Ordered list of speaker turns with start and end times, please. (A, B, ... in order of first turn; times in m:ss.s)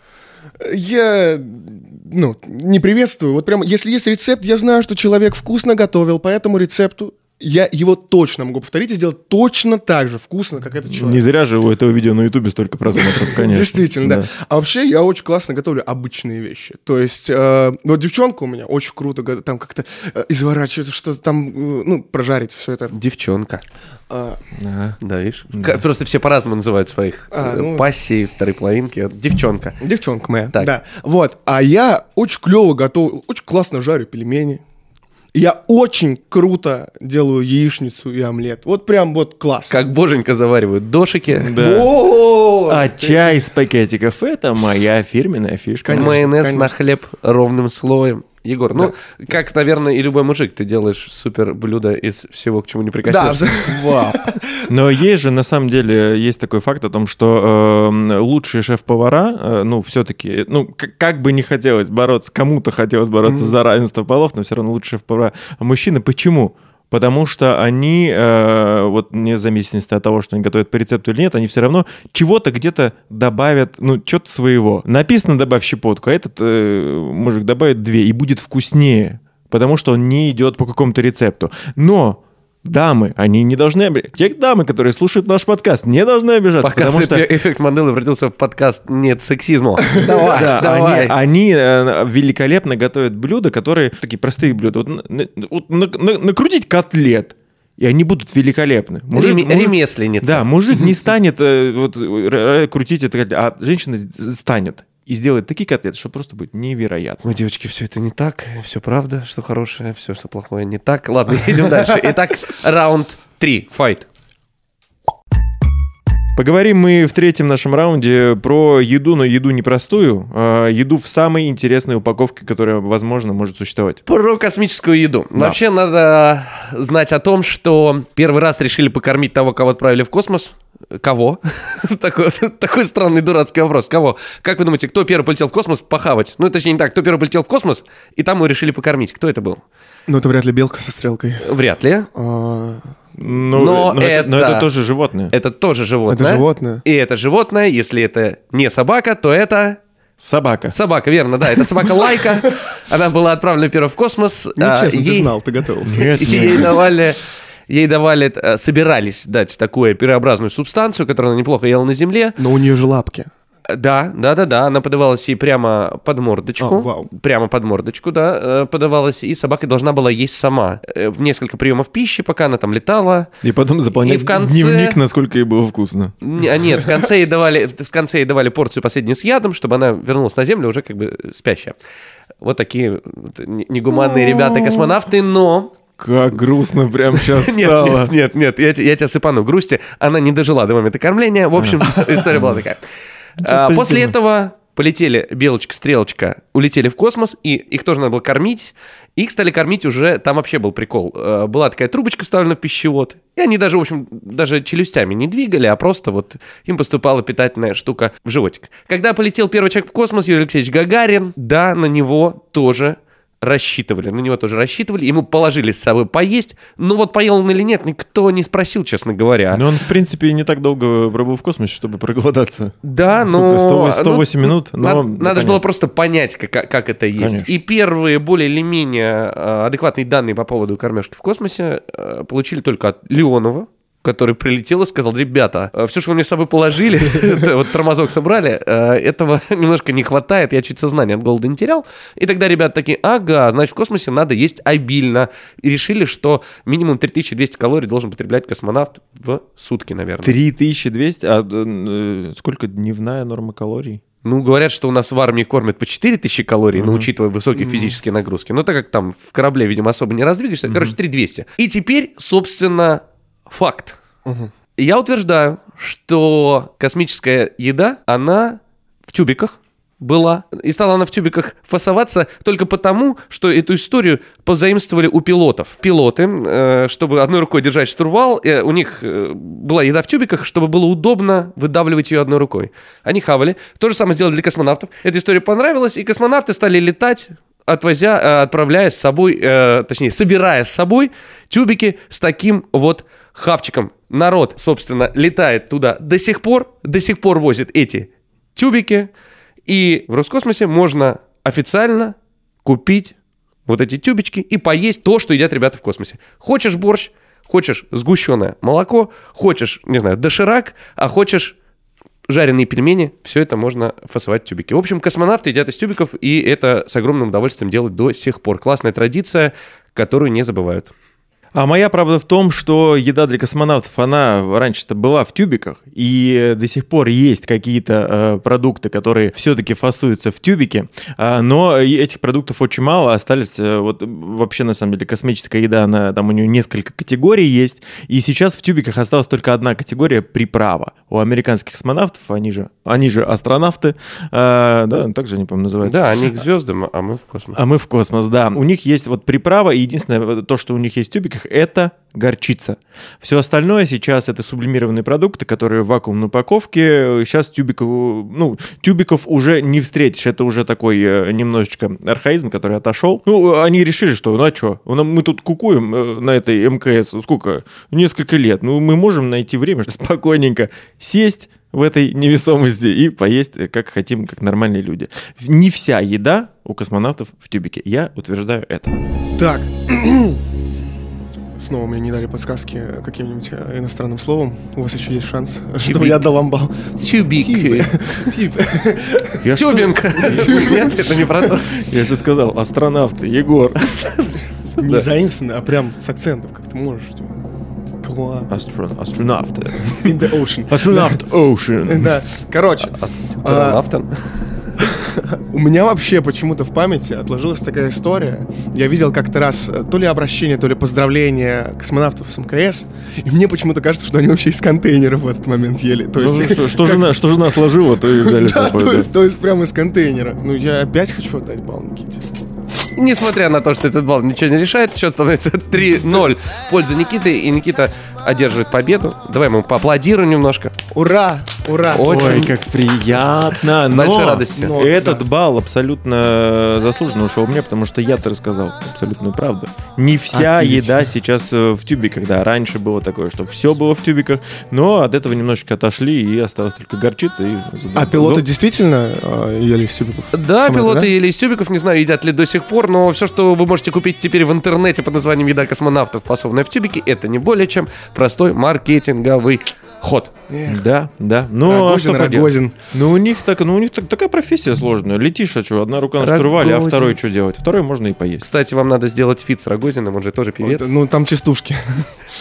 0:00.6-0:11.2 A
0:10.9-0:14.3 B
0:13.0-0:22.9 A
0:22.9-0:23.6 C
0:24.1-0:24.4 A
0:24.6-0:25.0 B
0:25.0-0:29.8 C
0:25.5-0:25.8 B
0:27.3-0:27.9 A
0:29.8-0:34.6 A
0:35.3-0:39.8 A
0:39.7-0:42.8 C
0:41.3-0:41.9 B
0:42.7-0:46.2 B
0:45.8-0:46.7 A
0:45.9-0:54.2 C
0:53.0-0:54.7 A
0:54.7-1:27.2 B
1:03.2-1:03.5 A
1:26.6-1:31.1 C
1:30.3-1:47.2 B
1:39.1-1:40.4 C
1:47.2-1:54.1 C
1:56.3-2:04.0 B
2:04.0-2:19.6 C
2:20.1-2:21.4 A
2:21.4-2:22.1 C
2:22.1-2:23.2 A
2:23.2-2:25.3 B
2:23.5-2:24.7 C
2:25.3-2:29.8 C
2:26.1-2:26.8 A
2:30.2-2:30.7 B
2:30.7-2:35.3 C
2:34.6-2:36.7 A
2:35.8-2:36.7 B
2:36.2-2:42.4 C
2:42.4-2:43.3 A
2:43.7-2:53.3 C
2:46.6-2:47.1 A
2:53.4-2:56.1 B
2:54.0-2:55.0 C
2:56.2-3:01.8 C
3:02.4-3:05.7 C
3:04.1-3:04.9 B
3:06.0-3:08.1 B
3:07.1-3:12.8 C
3:11.6-3:12.6 B
3:13.4-3:14.2 B
3:13.4-3:39.6 C
3:39.5-3:45.6 B
3:42.8-4:10.4 C
3:47.2-3:47.5 B
4:10.2-4:14.0 B
4:14.2-4:24.0 C
4:16.8-4:17.1 B
4:17.6-4:18.0 A
4:20.7-4:21.0 B
4:24.2-4:24.5 A
4:24.8-4:59.1 C
4:59.7-5:03.1 C
5:03.6-5:11.6 C
5:12.3-5:20.9 C
5:21.5-5:46.4 B
5:45.8-5:47.6 C
5:47.5-6:18.9 B
6:19.4-6:20.4 A
6:21.6-6:29.4 A
6:25.8-6:26.3 C
6:27.0-6:28.0 C
6:29.4-6:30.9 B
6:29.5-6:31.7 C
6:30.2-6:31.1 A
6:31.7-6:33.8 B
6:33.9-6:35.0 C
6:34.8-6:37.4 A
6:38.0-6:38.5 A
6:38.5-6:42.1 B
6:40.0-6:41.2 A
6:41.8-6:43.8 A
6:42.8-6:44.5 C
6:44.8-6:57.1 A
6:56.2-6:59.1 B
6:58.0-7:02.2 A
7:02.9-7:10.7 C
7:10.9-7:12.5 A
7:11.9-7:12.5 C
7:12.0-7:28.4 B
7:13.9-7:14.8 C
7:14.6-7:15.2 A
7:20.3-7:20.9 A
7:27.9-7:31.1 A
7:30.3-7:40.3 C
7:40.5-7:40.8 A
7:40.7-7:48.4 B
7:41.6-7:42.7 A
7:46.2-7:47.2 C
7:48.4-7:50.9 C
7:50.6-7:52.1 A